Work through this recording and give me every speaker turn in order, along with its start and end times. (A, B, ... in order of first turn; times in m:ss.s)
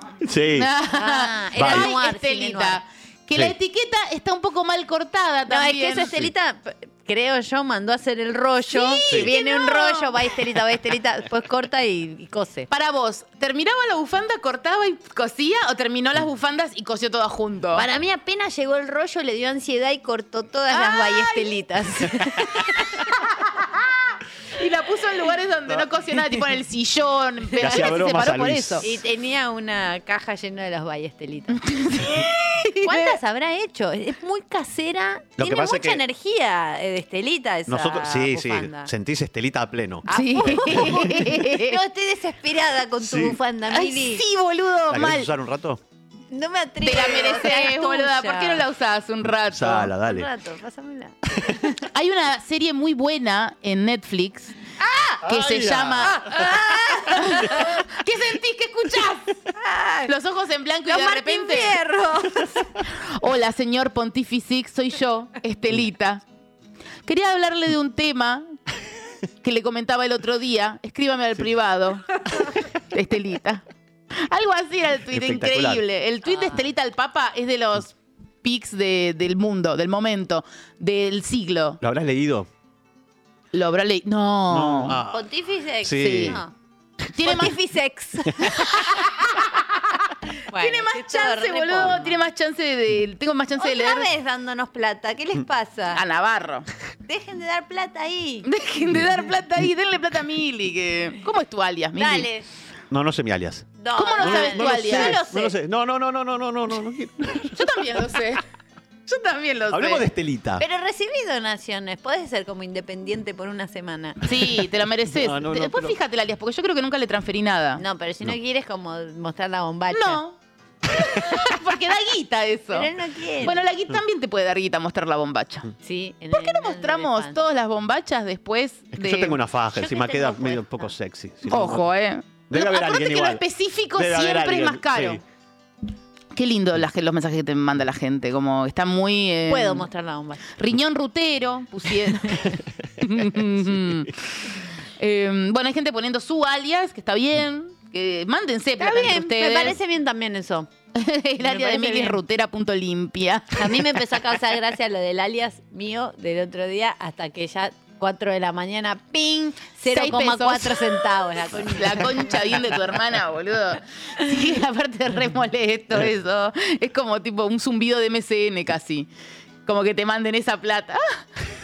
0:00.2-0:00.7 A
0:00.5-0:06.1 B
0:00.9-0:02.8 C
0:01.6-0:02.0 A
0:05.5-0:12.7 C
0:08.7-0:10.3 B
0:12.7-0:17.8 B
0:17.7-0:22.9 C
0:20.7-0:21.5 B
0:23.1-0:23.9 B
0:24.6-0:28.9 B
0:27.6-0:28.9 A
0:28.8-0:31.6 C
0:31.6-0:33.2 B
0:32.8-0:38.9 C
0:35.4-0:36.0 A
0:37.7-0:41.0 A
0:40.1-0:41.8 B
0:40.1-0:44.2 C
0:43.0-0:43.4 A
0:43.7-0:45.3 B
0:44.9-0:45.8 A
0:46.3-0:48.6 C
0:46.8-0:49.9 B
0:49.4-0:50.3 A
0:50.0-0:51.8 C
0:51.9-0:54.6 B
0:55.2-0:56.4 A
0:55.2-0:56.5 B
0:56.1-0:57.7 C
0:57.0-0:59.4 B
0:59.5-1:00.1 C
1:00.1-1:01.8 B
1:00.9-1:02.6 C
1:02.9-1:06.2 B
1:07.0-1:08.5 B
1:09.4-1:12.0 B
1:12.9-1:13.6 B
1:14.3-1:21.8 B
1:15.1-1:15.8 A
1:16.2-1:16.7 C
1:21.8-1:22.5 A
1:23.5-1:25.0 B
1:24.5-1:25.2 A
1:25.0-1:26.5 C
1:25.8-1:26.4 A
1:26.0-1:26.4 B
1:27.2-1:27.5 B
1:27.2-1:28.8 C
1:28.5-1:29.6 B
1:30.5-1:32.2 C
1:30.5-1:34.1 B
1:33.6-1:36.0 C
1:35.9-1:36.7 B
1:37.0-1:38.4 C
1:38.4-1:42.3 B
1:42.0-1:42.4 C
1:42.9-1:47.8 A
1:43.8-1:45.5 C
1:44.0-1:45.2 B
1:47.5-1:48.4 B
1:49.1-1:50.0 B
1:49.7-1:50.6 A
1:50.6-1:54.2 C
1:54.2-1:57.8 B
1:55.1-1:56.0 A
1:57.8-2:00.2 C
1:59.9-2:00.4 B
2:00.9-2:02.9 B
2:02.7-2:03.6 C
2:03.4-2:05.7 B
2:05.8-2:07.4 C
2:06.3-2:09.4 B
2:08.9-2:11.8 A
2:09.7-2:10.9 C
2:11.5-2:15.2 B
2:12.5-2:13.4 A
2:13.9-2:15.2 A
2:16.3-2:19.9 B
2:19.5-2:20.4 C
2:20.6-2:24.1 B
2:25.0-2:29.8 B
2:28.8-2:30.7 C
2:30.9-2:33.6 B
2:31.4-2:32.2 C
2:33.6-2:42.3 C
2:39.8-2:41.0 B
2:41.6-2:49.1 B
2:49.6-2:51.2 B